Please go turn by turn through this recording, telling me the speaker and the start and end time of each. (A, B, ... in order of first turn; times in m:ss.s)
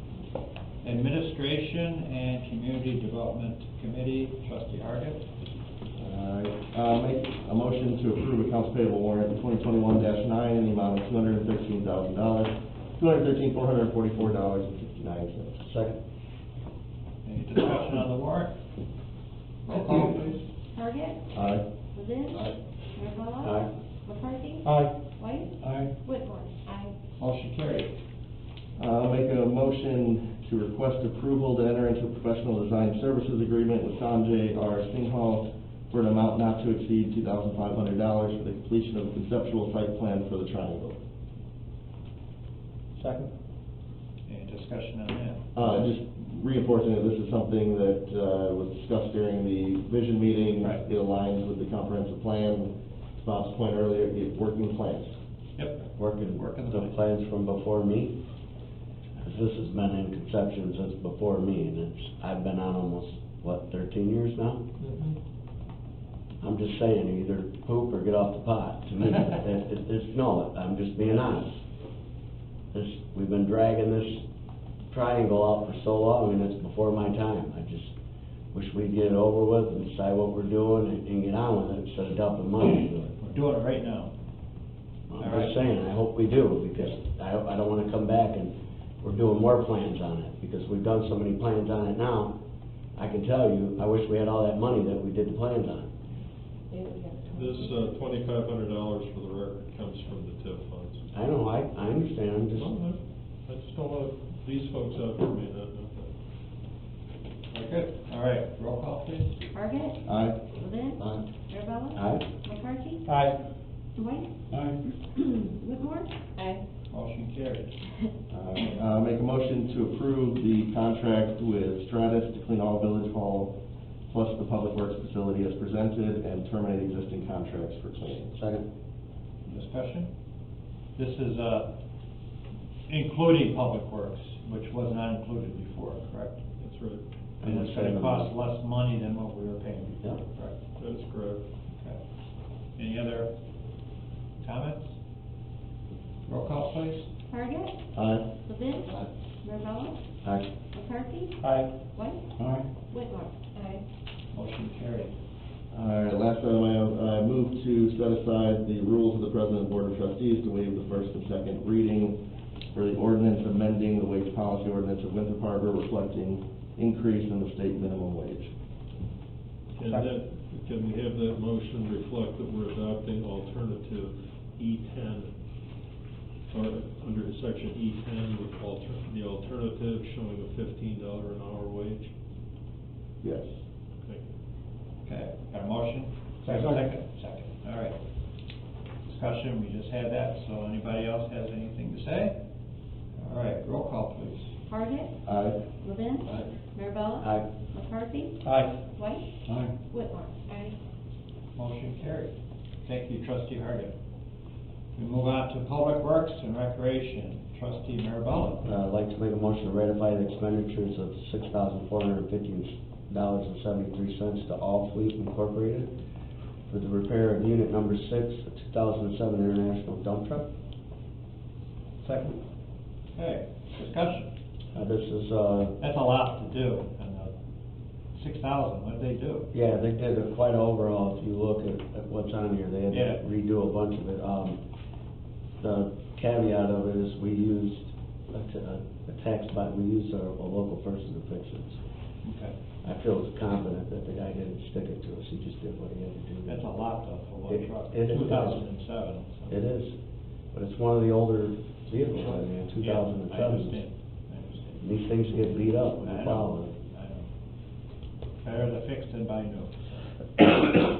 0:00.8-0:05.2 A
0:06.0-0:15.6 B
0:15.6-0:16.0 C
0:17.2-0:18.5 A
0:19.6-0:20.4 A
0:20.7-0:21.2 D
0:21.3-0:21.6 B
0:21.9-0:26.9 D
0:23.4-0:23.7 C
0:24.7-0:24.9 A
0:27.2-0:27.9 A
0:28.8-0:41.0 B
0:43.0-0:43.3 A
0:44.2-0:45.4 A
0:45.5-0:55.1 B
0:55.6-0:56.9 A
0:56.0-0:58.1 C
0:59.2-1:04.6 C
1:04.8-1:05.1 E
1:06.4-1:11.6 C
1:12.7-1:14.2 C
1:14.9-1:17.9 C
1:18.5-1:23.1 C
1:23.2-1:24.1 A
1:25.1-1:32.3 C
1:25.2-1:25.6 A
1:33.0-1:35.9 C
1:36.7-1:37.9 D
1:37.3-1:41.0 E
1:41.1-1:42.7 C
1:42.5-1:46.1 E
1:47.5-1:49.3 A
1:49.5-1:53.1 D
1:50.0-1:50.5 B
1:51.9-1:52.2 C
1:53.1-1:53.4 A
1:53.9-1:54.4 D
1:55.1-1:56.6 D
1:56.9-1:57.8 A
1:58.3-1:58.6 C
1:58.5-2:03.5 B
2:04.1-2:08.3 B
2:08.3-2:08.6 C
2:09.4-2:10.1 A
2:11.0-2:11.7 A
2:12.9-2:16.4 A
2:16.6-2:17.0 E
2:17.4-2:18.3 C
2:17.4-2:20.5 A
2:20.8-2:21.4 E
2:21.7-2:22.0 A
2:22.8-2:23.3 A
2:24.4-2:24.9 A
2:26.2-2:27.1 A
2:27.3-2:27.8 D
2:27.9-2:28.3 B
2:28.4-2:30.0 D
2:30.2-2:30.5 C
2:30.7-2:31.4 D
2:31.4-2:31.7 A
2:31.9-2:32.3 D
2:32.9-2:33.8 D
2:34.3-2:35.1 A
2:35.7-2:42.2 B
2:42.7-2:48.5 B
2:49.8-2:55.3 E
2:56.5-3:02.1 E
3:03.2-3:03.5 B
3:04.0-3:04.3 E
3:05.0-3:08.0 A
3:06.4-3:06.8 B
3:09.1-3:12.4 A
3:13.2-3:14.5 A
3:14.7-3:15.2 D
3:15.2-3:15.6 B
3:15.8-3:19.3 D
3:17.2-3:17.5 C
3:18.4-3:18.8 A
3:19.9-3:20.8 D
3:21.6-3:23.9 A
3:25.0-3:28.6 A
3:28.6-3:35.9 C
3:36.7-3:40.5 C
3:43.1-3:44.3 A
3:44.7-3:45.8 C
3:45.8-3:47.3 A
3:48.1-3:49.5 A
3:49.5-3:54.6 C
3:52.9-3:53.2 A
3:55.6-4:01.8 C
4:02.2-4:02.5 A
4:02.8-4:06.6 C
4:06.5-4:09.5 A
4:07.5-4:08.6 C
4:09.5-4:09.9 C
4:10.5-4:13.8 C
4:12.8-4:14.8 A
4:14.8-4:16.7 C
4:16.0-4:17.3 A
4:18.4-4:20.7 A